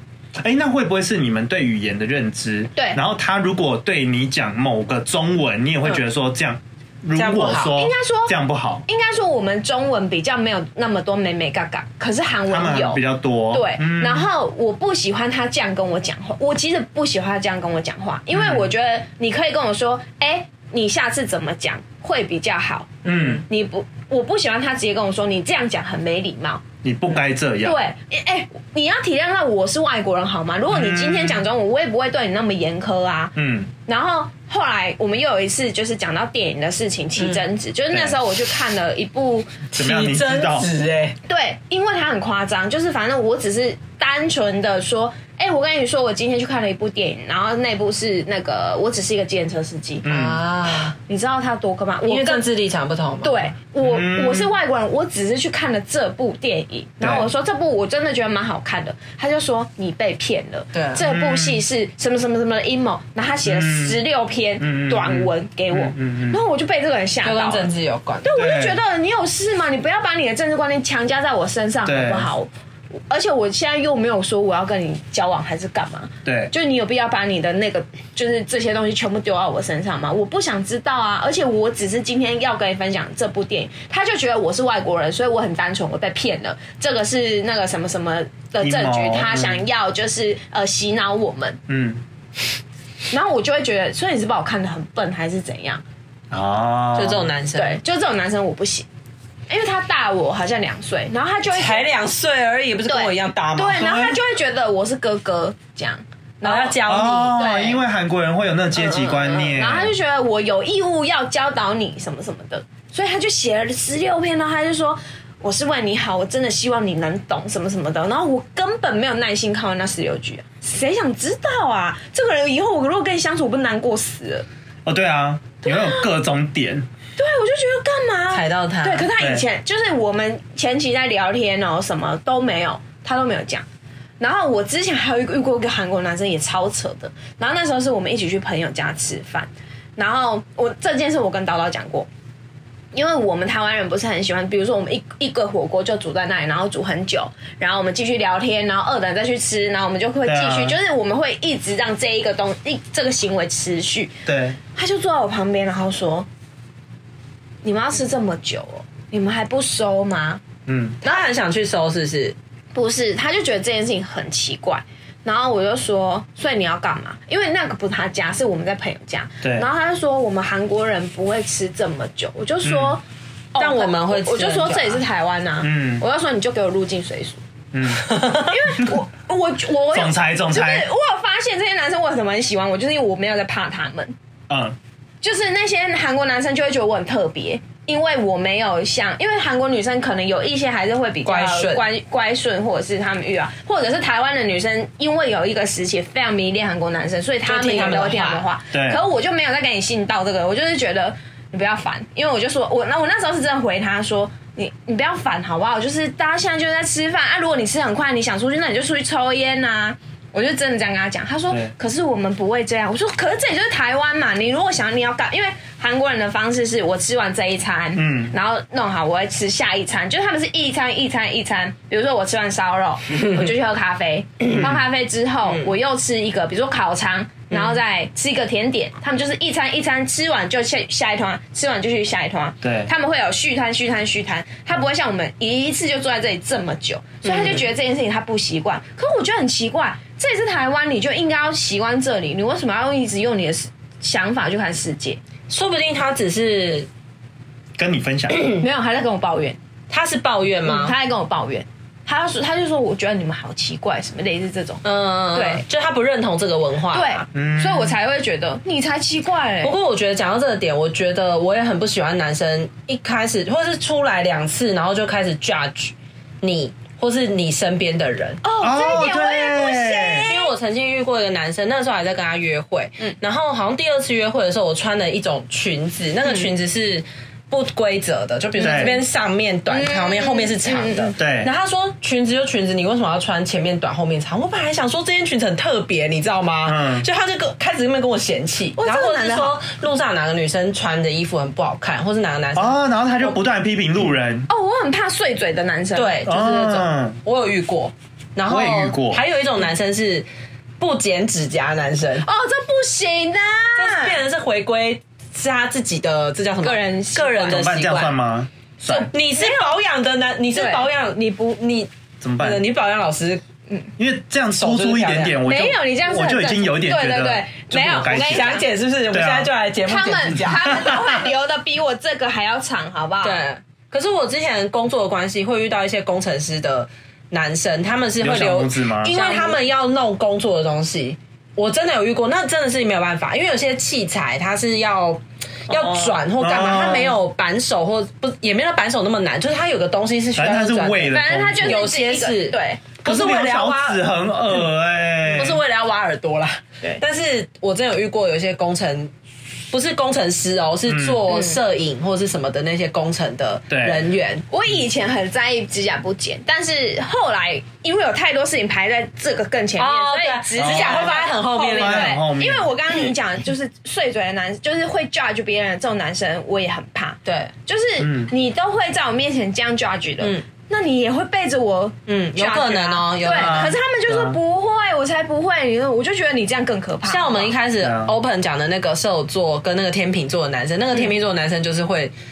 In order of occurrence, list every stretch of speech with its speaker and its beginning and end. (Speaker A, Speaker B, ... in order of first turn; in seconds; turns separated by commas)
Speaker A: 0.3-8.8, Speaker B: 7.2-7.7, Speaker C: 7.7-26.6, Speaker A: 12.5-14.3, Speaker A: 18.3-18.7, Speaker A: 23.0-23.4, Speaker A: 26.8-27.8, Speaker C: 27.6-33.3, Speaker A: 30.7-31.4, Speaker A: 33.4-33.7, Speaker C: 33.9-39.6, Speaker A: 37.9-38.2, Speaker B: 39.7-41.1, Speaker A: 39.7-40.7, Speaker C: 41.3-50.0, Speaker A: 50.0-50.4, Speaker B: 50.0-51.0, Speaker C: 51.0-52.5, Speaker B: 52.0-53.5, Speaker C: 53.2-67.7, Speaker A: 53.8-54.5, Speaker A: 57.0-57.3, Speaker B: 60.7-61.0, Speaker A: 61.0-61.6, Speaker A: 63.4-64.0, Speaker A: 64.6-66.4, Speaker B: 67.2-68.3, Speaker C: 68.2-72.5, Speaker A: 68.3-68.8, Speaker A: 71.8-72.3, Speaker C: 73.1-91.6, Speaker A: 76.2-76.5, Speaker A: 88.6-89.6, Speaker A: 91.7-92.0, Speaker C: 93.1-95.8, Speaker A: 96.3-97.3, Speaker B: 97.0-97.8, Speaker C: 97.5-98.9, Speaker C: 99.5-101.9, Speaker B: 101.5-103.9, Speaker C: 102.9-107.8, Speaker A: 103.8-104.2, Speaker B: 106.4-107.4, Speaker A: 106.8-109.9, Speaker C: 108.8-124.5, Speaker A: 124.8-126.9, Speaker C: 125.6-126.1, Speaker C: 127.2-133.6, Speaker B: 128.3-129.1, Speaker A: 129.2-129.4, Speaker C: 134.2-142.1, Speaker C: 142.9-154.1, Speaker A: 150.2-150.8, Speaker A: 154.2-154.6, Speaker C: 154.7-156.3, Speaker C: 157.6-160.4, Speaker A: 160.7-161.0, Speaker B: 161.0-162.3, Speaker C: 162.7-173.0, Speaker A: 169.4-169.7, Speaker A: 172.6-173.0, Speaker C: 173.5-177.4, Speaker B: 173.6-175.0, Speaker A: 175.6-176.0, Speaker A: 177.7-178.4, Speaker B: 178.1-178.5, Speaker C: 178.2-184.1, Speaker A: 179.9-180.9, Speaker A: 184.5-184.8, Speaker C: 185.2-245.2, Speaker B: 191.2-191.8, Speaker B: 197.4-198.4, Speaker A: 198.7-199.0, Speaker A: 217.9-218.3, Speaker A: 224.6-224.8, Speaker A: 232.6-232.9, Speaker B: 237.2-237.5, Speaker A: 237.3-237.6, Speaker B: 245.5-246.9, Speaker A: 247.8-248.6, Speaker C: 248.6-249.6, Speaker B: 249.9-250.9, Speaker C: 250.6-255.6, Speaker B: 254.8-257.2, Speaker C: 256.9-259.7, Speaker A: 257.3-258.0, Speaker B: 259.6-268.4, Speaker C: 268.4-270.5, Speaker A: 268.6-270.3, Speaker B: 270.2-293.3, Speaker A: 278.6-279.0, Speaker C: 279.7-281.1, Speaker A: 281.2-281.5, Speaker A: 286.6-287.0, Speaker C: 288.8-289.6, Speaker A: 292.6-294.5, Speaker C: 294.5-296.2, Speaker B: 295.9-300.2, Speaker A: 296.2-297.2, Speaker A: 298.4-299.2, Speaker B: 300.8-302.3, Speaker C: 302.2-304.2, Speaker B: 303.8-308.2, Speaker C: 306.6-307.6, Speaker A: 307.4-309.1, Speaker C: 308.9-309.8, Speaker B: 308.9-313.4, Speaker C: 310.5-310.9, Speaker A: 312.2-312.6, Speaker A: 314.0-319.5, Speaker B: 314.6-315.4, Speaker C: 315.4-318.7, Speaker B: 318.1-320.9, Speaker C: 319.8-323.4, Speaker A: 320.8-321.2, Speaker B: 323.2-344.0, Speaker A: 328.2-329.3, Speaker C: 329.2-329.5, Speaker A: 335.7-337.2, Speaker A: 340.4-341.9, Speaker C: 341.1-342.9, Speaker A: 343.0-345.6, Speaker B: 345.3-349.1, Speaker B: 349.7-354.4, Speaker A: 350.9-351.2, Speaker C: 351.3-351.6, Speaker A: 353.7-354.0, Speaker C: 354.5-377.5, Speaker B: 359.8-362.2, Speaker A: 360.6-361.2, Speaker A: 361.7-362.6, Speaker B: 367.2-367.5, Speaker A: 368.0-368.3, Speaker B: 372.1-373.6, Speaker A: 373.2-374.4, Speaker B: 377.1-382.1, Speaker A: 377.8-378.1